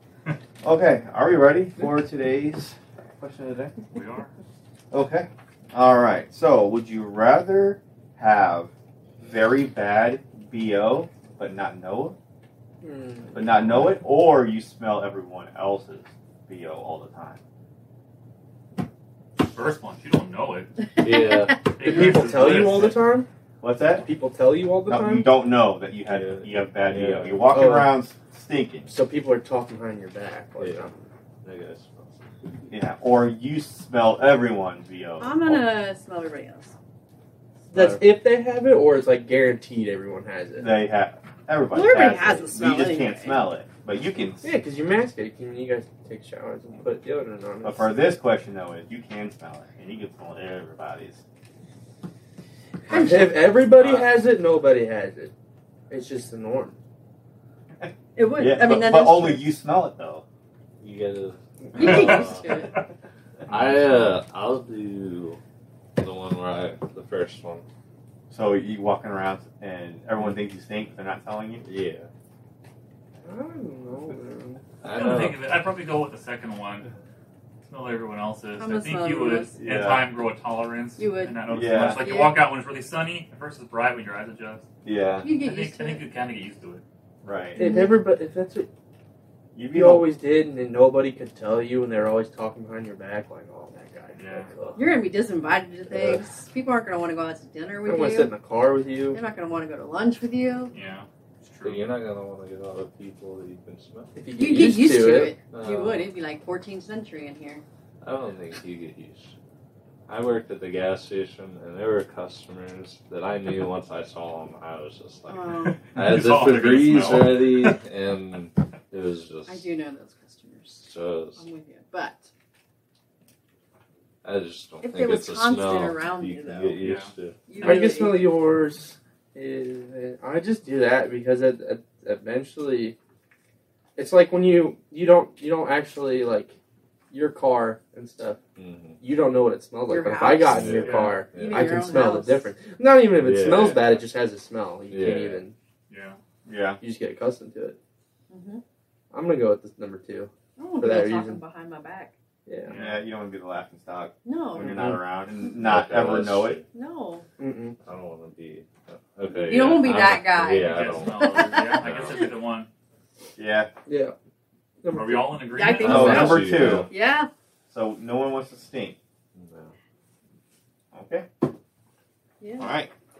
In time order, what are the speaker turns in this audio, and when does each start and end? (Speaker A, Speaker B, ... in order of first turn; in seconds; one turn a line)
Speaker A: 0.6-3.7
Speaker B: 3.9-4.3
Speaker A: 4.9-12.2
Speaker C: 12.8-13.5
Speaker A: 13.3-17.4
Speaker B: 19.4-20.8
Speaker D: 21.0-21.5
Speaker E: 21.0-22.6
Speaker B: 21.7-22.9
Speaker C: 21.7-23.3
Speaker A: 23.6-24.1
Speaker C: 24.0-25.3
Speaker A: 24.9-28.9
Speaker E: 26.0-27.5
Speaker C: 27.5-28.0
Speaker C: 28.9-31.1
Speaker E: 30.6-30.9
Speaker E: 31.4-32.2
Speaker A: 32.7-35.6
Speaker D: 35.2-36.7
Speaker C: 37.7-40.8
Speaker A: 37.7-38.0
Speaker A: 40.6-44.5
Speaker D: 41.7-43.4
Speaker C: 44.4-48.1
Speaker A: 47.6-51.2
Speaker D: 52.9-53.4
Speaker C: 52.9-55.3
Speaker B: 53.8-54.0
Speaker C: 55.9-56.8
Speaker A: 57.8-60.2
Speaker D: 58.1-59.5
Speaker E: 60.8-62.5
Speaker D: 61.7-62.8
Speaker B: 61.8-62.9
Speaker E: 63.5-65.4
Speaker B: 63.5-63.9
Speaker E: 66.0-67.6
Speaker A: 68.3-71.6
Speaker E: 71.6-72.1
Speaker C: 73.2-74.6
Speaker E: 74.8-75.4
Speaker B: 74.9-76.9
Speaker B: 77.6-84.7
Speaker D: 78.6-79.5
Speaker A: 79.6-80.1
Speaker D: 81.0-82.4
Speaker A: 81.5-82.0
Speaker A: 84.8-85.3
Speaker D: 85.2-86.0
Speaker B: 85.3-86.8
Speaker A: 87.2-87.6
Speaker C: 87.5-88.7
Speaker D: 87.6-88.0
Speaker A: 89.5-90.1
Speaker C: 89.7-94.9
Speaker B: 94.1-94.5
Speaker D: 94.8-98.3
Speaker C: 95.9-96.2
Speaker C: 97.8-99.2
Speaker D: 99.1-100.7
Speaker B: 100.7-101.9
Speaker E: 101.6-104.2
Speaker C: 104.1-105.4
Speaker D: 104.3-107.6
Speaker E: 105.5-106.1
Speaker E: 108.0-109.3
Speaker E: 110.1-119.7
Speaker D: 115.2-115.8
Speaker B: 115.9-117.7
Speaker D: 119.5-122.3
Speaker E: 120.8-121.5
Speaker E: 124.2-127.5
Speaker D: 124.8-126.9
Speaker B: 126.8-127.1
Speaker D: 127.5-128.2
Speaker C: 127.6-132.9
Speaker C: 133.9-136.6
Speaker C: 137.1-138.4
Speaker E: 138.6-139.0
Speaker C: 139.0-145.5
Speaker D: 139.9-142.4
Speaker E: 140.4-142.0
Speaker B: 140.8-141.2
Speaker E: 143.1-144.1
Speaker E: 144.9-145.4
Speaker B: 145.9-146.2
Speaker A: 146.4-146.8
Speaker C: 146.8-147.8
Speaker D: 148.3-148.6
Speaker C: 149.1-151.4
Speaker D: 150.6-152.1
Speaker C: 152.4-152.8
Speaker B: 152.7-153.0
Speaker A: 152.7-156.6
Speaker D: 154.2-154.9
Speaker C: 154.7-155.0
Speaker E: 155.4-156.6
Speaker D: 156.7-157.2
Speaker C: 157.4-157.8
Speaker E: 157.8-162.2
Speaker D: 159.2-161.7
Speaker B: 160.6-162.7
Speaker A: 163.4-163.7
Speaker C: 163.9-164.1
Speaker C: 164.8-165.4
Speaker B: 164.9-166.3
Speaker D: 165.5-167.3
Speaker A: 165.8-166.9
Speaker E: 165.8-166.9
Speaker A: 167.7-168.9
Speaker E: 169.3-169.7
Speaker A: 170.9-171.2
Speaker D: 172.4-172.7
Speaker A: 172.6-172.9